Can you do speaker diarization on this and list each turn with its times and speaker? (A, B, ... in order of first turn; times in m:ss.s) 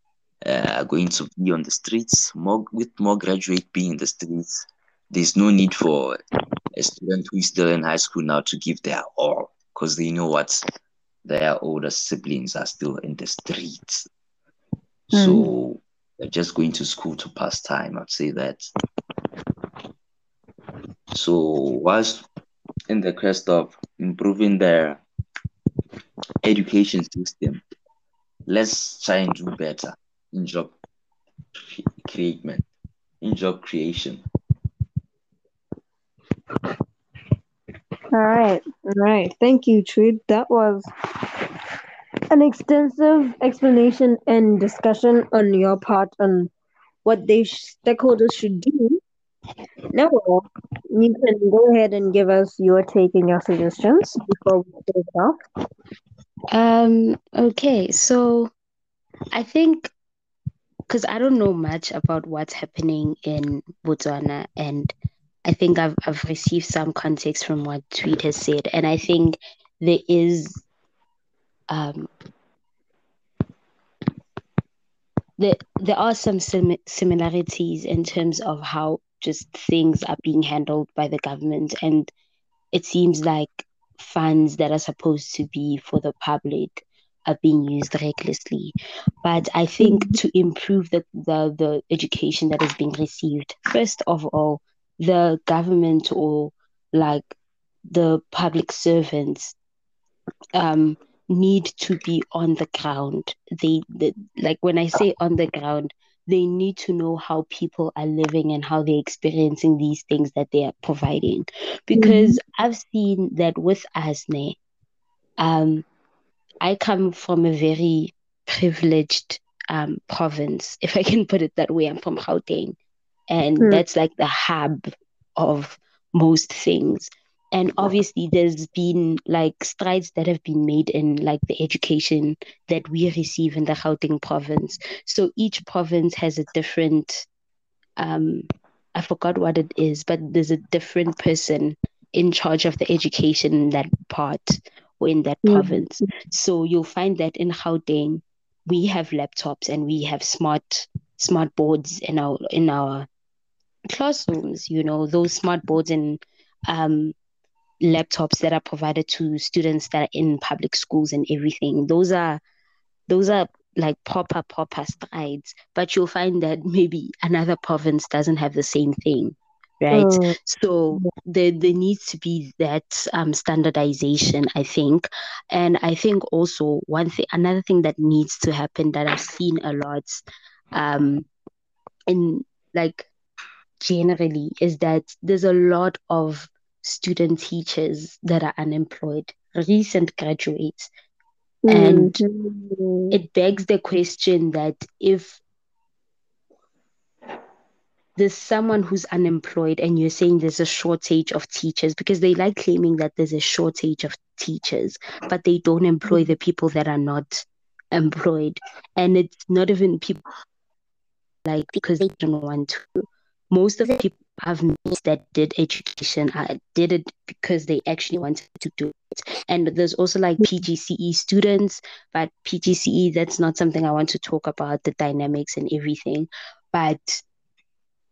0:00.4-0:06.2 A
0:06.8-0:10.6 A
0:11.2-0:14.1 A
0:15.1-0:18.6 A
0:15.1-0:15.5 B
0:21.1-0:22.2 A
0:22.9-0:25.0 A
0:26.4-0:27.6 A
0:28.5-0:30.7 A
0:31.7-0:32.6 A
0:33.2-0:34.2 A
0:38.1-0:40.9 B
0:42.3-0:46.5 B
0:47.0-0:49.0 B
0:49.9-0:55.4 B
0:56.5-0:58.5 C
0:59.3-0:59.9 C
1:00.9-1:04.9 C
1:05.4-1:10.6 C
1:11.7-1:12.1 C
1:15.4-1:22.1 C
1:22.7-1:37.4 C
1:29.8-1:30.2 B
1:37.9-1:39.6 C
1:40.6-1:54.6 C
1:51.9-1:52.4 B
1:55.4-1:55.8 C
1:56.6-2:02.8 C
2:03.3-2:17.3 C
2:03.6-2:03.8 B
2:18.0-2:33.1 C
2:25.4-2:26.1 B
2:33.9-2:37.2 C
2:37.8-2:42.4 C
2:43.1-3:01.3 C
2:49.9-2:50.4 B
3:02.1-3:03.1 C
3:03.8-3:10.9 C
3:11.6-3:13.1 B
3:11.7-3:12.2 C
3:13.1-3:15.4 C
3:18.2-3:30.2 C
3:26.1-3:26.3 B
3:31.4-3:47.2 C